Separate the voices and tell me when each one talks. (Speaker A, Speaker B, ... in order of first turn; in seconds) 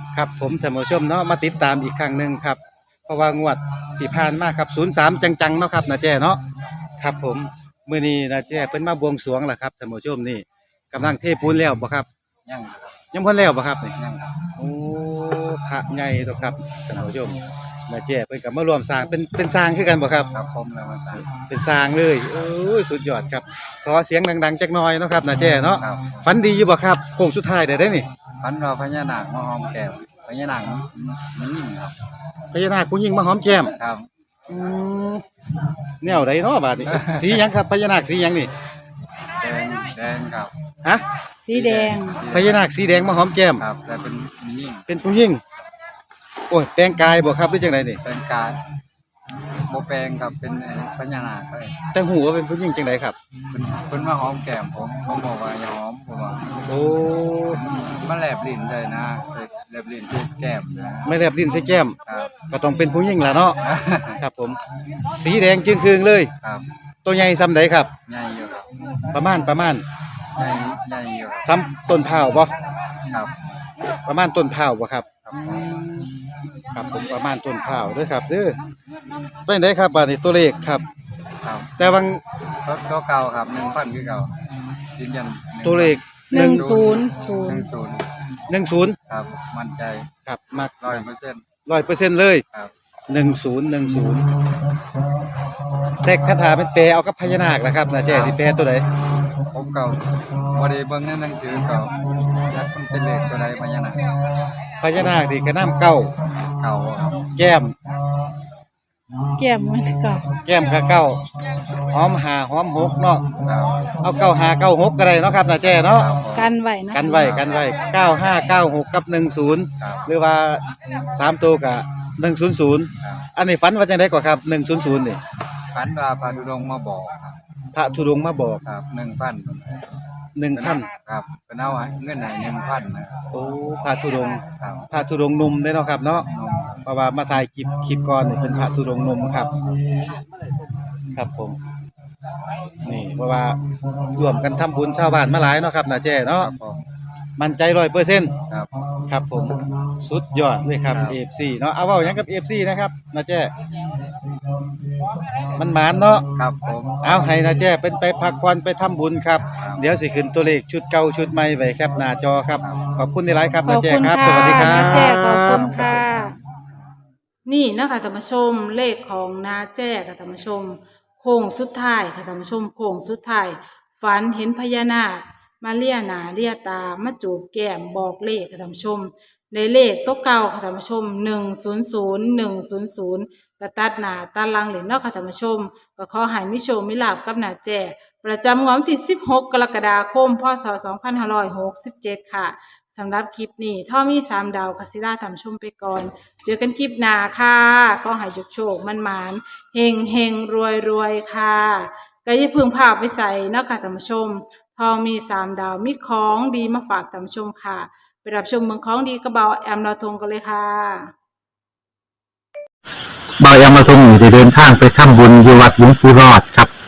Speaker A: 0.1-6.4, 7.0-12.1, 13.1-13.9, 14.6-20.3, 21.2-28.1, 32.5-33.7, 34.5-35.2, 36.0-38.5, 42.3-43.6, 44.9-45.4, 46.5-48.0, 51.9-53.1, 56.7-57.6, 61.0-62.0, 62.5-63.6, 64.2-64.6, 65.1-66.3, 67.0-67.9, 69.1-69.8, 71.4-72.5, 74.0-76.1, 76.7-78.6, 79.5-80.8, 81.8-82.2, 85.6-86.7, 88.5-89.0, 90.2-91.0, 91.7-92.4, 93.1-94.3, 96.0-98.8, 104.8-106.1, 107.3-107.7, 110.4-111.3, 111.9-113.3, 114.0-116.1, 116.9-125.2, 127.7-128.6, 130.3-130.9, 133.3-136.3, 136.8-139.5, 141.1-141.6, 142.8-143.6, 144.1-146.5, 147.4-148.4, 149.1-153.5, 155.5-156.3, 157.0-166.0
Speaker B: 12.4-12.9, 13.9-14.4, 20.3-21.2, 25.8-26.3, 28.4-31.9, 33.6-34.1, 36.9-37.2, 39.4-40.5, 41.5-44.9, 48.0-48.6, 49.7-51.8, 53.5-56.8, 57.5-61.2, 62.0-62.4, 63.6-64.2, 68.1-68.7, 70.4-71.5, 75.2-75.7, 81.4-81.9, 82.6-84.3, 85.0-88.1, 89.1-90.1, 90.8-91.4, 98.1-98.3, 99.5-100.0, 100.5-102.0, 102.5-104.1, 106.6-107.2, 113.4-113.8, 115.7-116.5, 117.2-117.5, 119.8-120.1, 125.7-127.3, 128.6-129.9, 130.5-133.4, 134.6-134.9, 136.3-136.8, 146.3-146.8, 150.9-151.2, 156.3-157.0, 159.5-159.8
Speaker C: 41.4-42.2, 86.3-87.7, 109.4-110.2, 116.3-117.5, 163.6-166.3, 167.4-211.1
Speaker D: 213.4-216.7